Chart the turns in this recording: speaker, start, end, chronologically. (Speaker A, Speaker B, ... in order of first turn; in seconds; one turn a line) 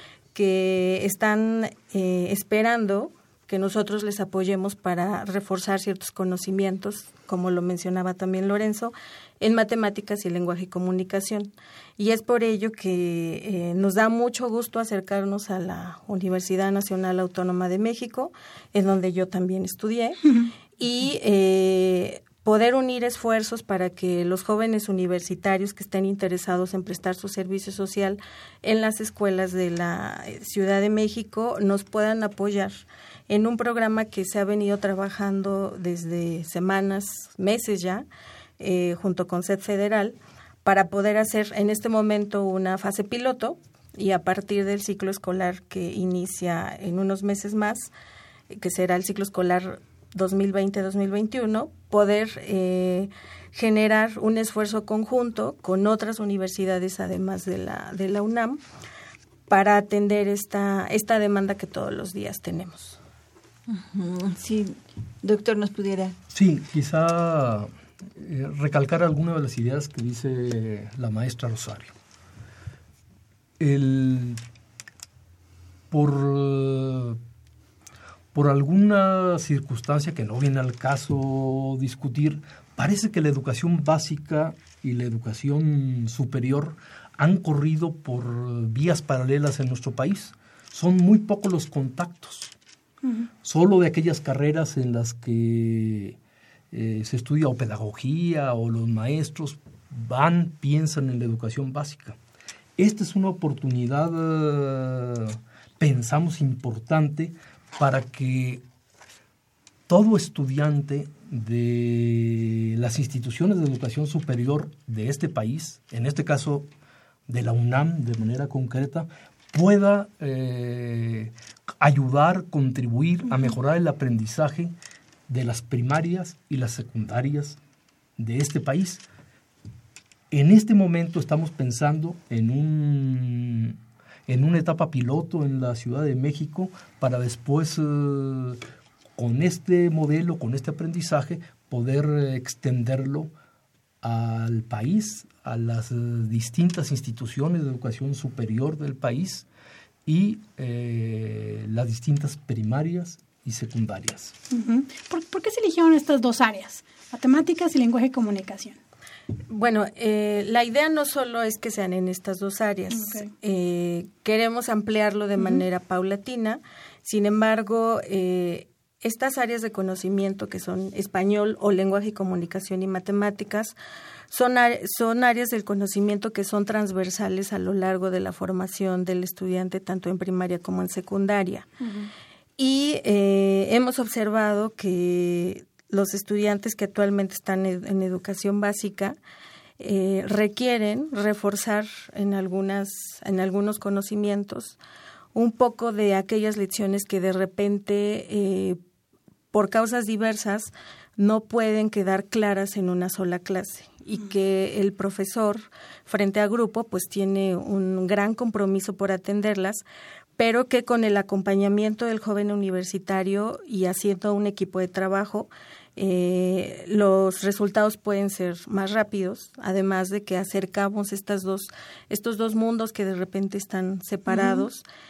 Speaker A: 0.3-20.2
Speaker A: 20.8-38.1
Speaker A: 38.6-47.9
Speaker A: 48.5-58.6
Speaker A: 59.5-63.0
Speaker B: 63.7-66.2
Speaker C: 66.3-71.9
Speaker C: 73.6-74.4
Speaker C: 75.9-77.2
Speaker C: 78.3-92.5
Speaker D: 93.0-93.3
Speaker C: 93.4-96.2
Speaker C: 96.7-102.2
Speaker C: 102.8-108.6
Speaker C: 109.9-116.7
Speaker C: 117.3-124.8
Speaker D: 123.3-123.6
Speaker C: 125.3-127.6
Speaker C: 128.2-129.0
Speaker C: 130.3-138.6
Speaker C: 139.2-143.3
Speaker C: 144.0-149.5
Speaker C: 150.1-154.4
Speaker D: 154.5-158.8
Speaker A: 159.5-173.8
Speaker D: 162.9-163.3
Speaker D: 165.4-165.6
Speaker A: 174.3-181.7
Speaker D: 181.8-182.1
Speaker A: 182.6-189.2
Speaker A: 189.8-194.8
Speaker A: 195.3-198.8
Speaker A: 199.5-209.8
Speaker A: 210.4-224.8
Speaker D: 224.3-224.7